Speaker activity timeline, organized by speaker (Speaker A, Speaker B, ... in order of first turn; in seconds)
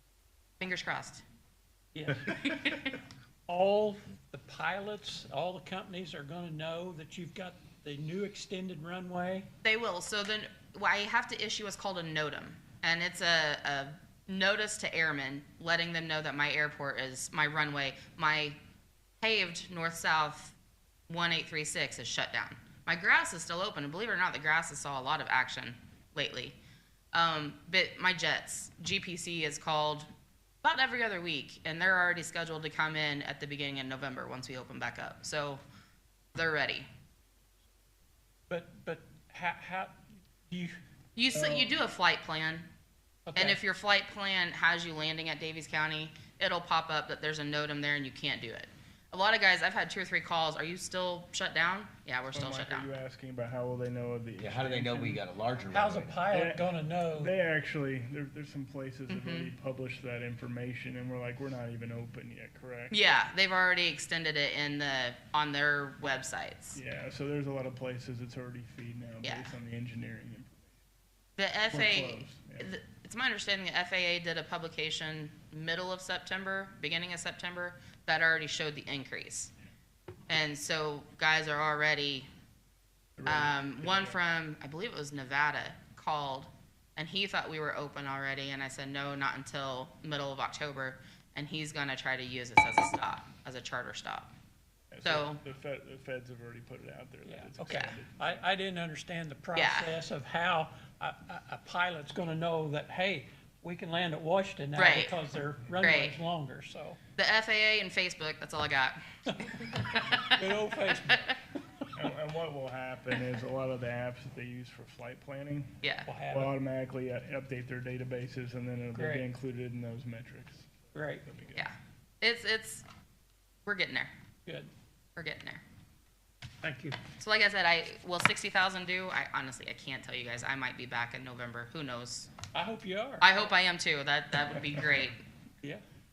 Speaker A: 0.6-1.2, 2.2-2.9, 9.6-18.6, 19.2-20.5, 21.1-26.6, 27.1-30.1, 30.6-35.6, 36.3-36.9, 41.1-42.7, 43.3-52.9, 59.1-59.5, 62.9-66.8, 69.2-69.5, 71.4-79.5, 80.3-82.3, 83.2-94.3, 95.0-95.4, 97.7-98.0, 99.5-99.9, 104.8-105.2, 105.8-106.2, 107.2-110.3, 115.8-116.1, 121.5-122.8, 123.7-124.1, 125.2-125.6, 127.2-132.3, 133.2-135.2
Speaker B: 1.9-2.6, 3.5-9.5, 38.5-40.8, 43.3-43.6, 55.7-57.3, 97.2-107.0, 109.3-109.6, 110.1-111.3, 116.0-116.5, 118.9-119.3, 120.9-121.2, 124.5-124.7, 126.6-127.0, 132.5-133.3
Speaker C: 52.3-55.2, 56.3-63.0, 66.7-70.7, 71.7-72.7, 83.2-84.2, 94.9-98.4, 111.9-115.8, 116.3-121.7
Speaker D: 54.4-56.3